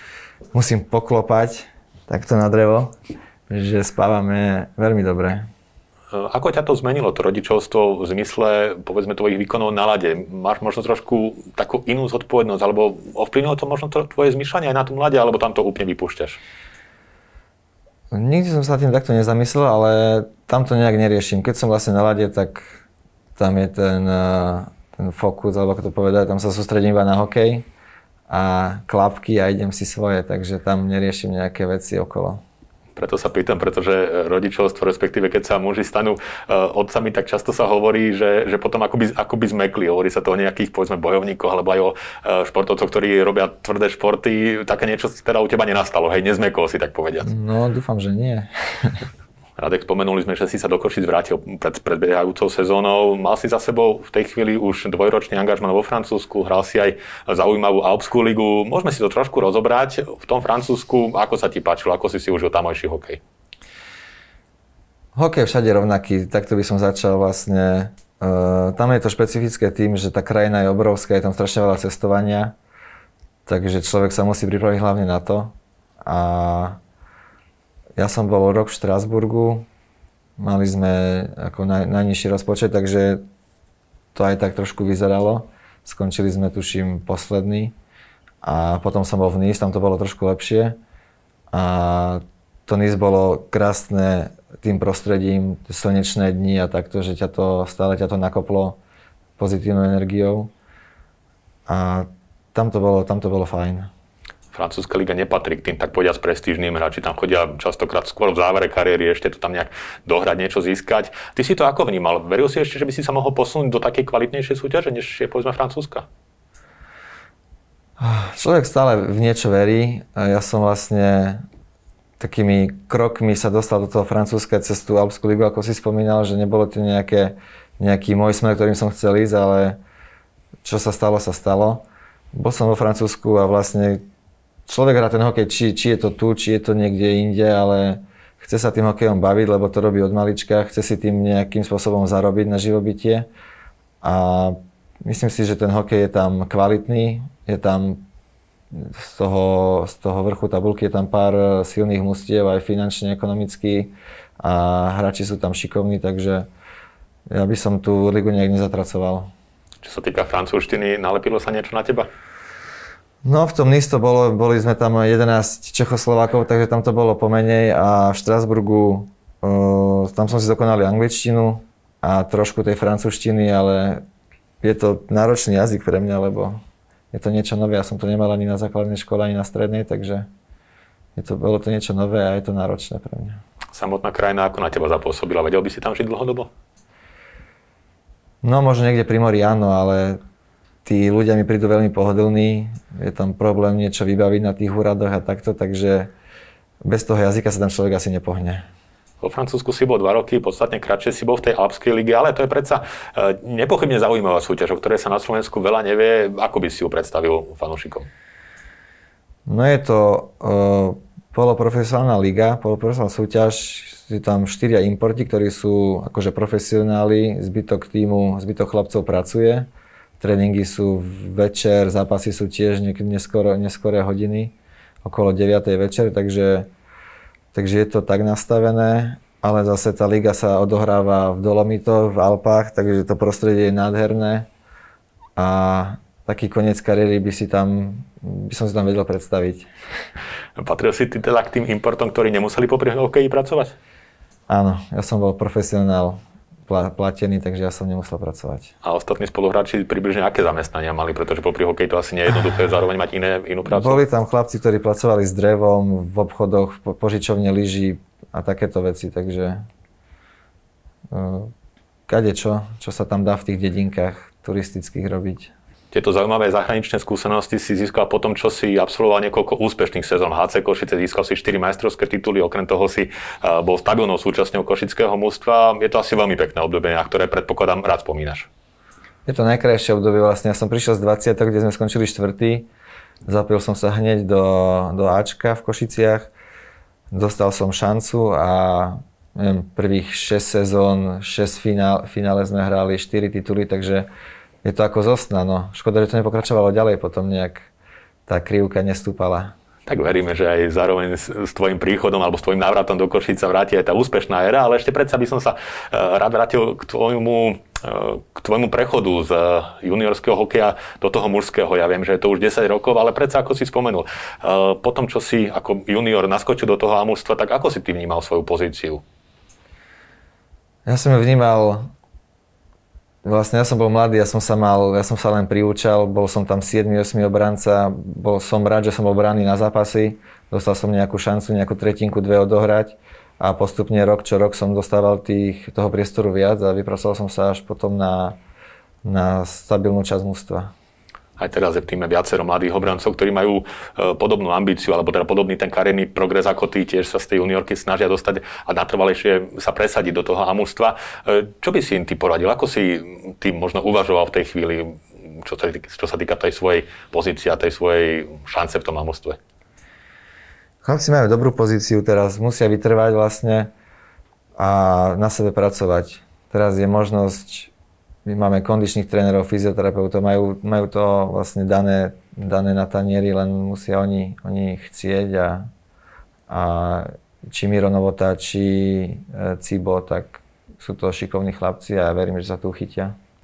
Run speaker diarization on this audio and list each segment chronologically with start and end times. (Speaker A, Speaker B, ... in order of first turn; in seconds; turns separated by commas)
Speaker A: 0.5-2.9, Speaker A: 3.5-5.5, Speaker B: 6.1-16.4, Speaker A: 18.1-22.8, Speaker A: 23.4-27.6, Speaker A: 28.3-32.4, Speaker B: 33.0-47.3, Speaker A: 47.2-49.0, Speaker B: 49.6-63.2, Speaker A: 65.1-72.5, Speaker A: 73.5-76.8, Speaker A: 78.0-79.7, Speaker A: 80.4-83.2, Speaker A: 84.1-87.7, Speaker A: 88.4-90.8, Speaker A: 91.5-98.8, Speaker A: 99.4-100.5, Speaker A: 101.7-103.9, Speaker B: 104.5-116.0, Speaker A: 118.0-121.4, Speaker A: 122.2-129.8, Speaker A: 130.6-134.0, Speaker A: 134.7-143.3, Speaker A: 144.0-148.0, Speaker A: 148.7-156.5, Speaker A: 157.3-159.3, Speaker B: 159.8-162.1, Speaker A: 163.2-174.0, Speaker A: 174.6-176.6, Speaker A: 177.1-180.3, Speaker A: 181.2-183.4, Speaker B: 183.7-186.5, Speaker A: 188.4-190.2, Speaker A: 190.8-196.1, Speaker A: 196.8-198.6, Speaker B: 199.2-208.1, Speaker A: 209.4-219.7, Speaker A: 220.2-226.7, Speaker A: 227.5-234.5, Speaker A: 235.4-239.7, Speaker B: 240.6-243.8, Speaker A: 244.5-248.7, Speaker B: 248.8-254.0, Speaker A: 253.7-259.6, Speaker A: 261.1-261.5, Speaker A: 262.1-265.5, Speaker B: 265.9-278.5, Speaker A: 279.2-282.7, Speaker A: 283.2-286.3, Speaker A: 287.1-294.1, Speaker A: 294.6-297.7, Speaker A: 298.3-299.5, Speaker B: 299.9-319.0, Speaker A: 320.9-321.9, Speaker A: 323.2-338.4, Speaker A: 339.0-340.7, Speaker B: 341.4-359.4, Speaker A: 360.8-363.7, Speaker A: 364.6-367.7, Speaker A: 368.2-375.7, Speaker A: 376.5-383.1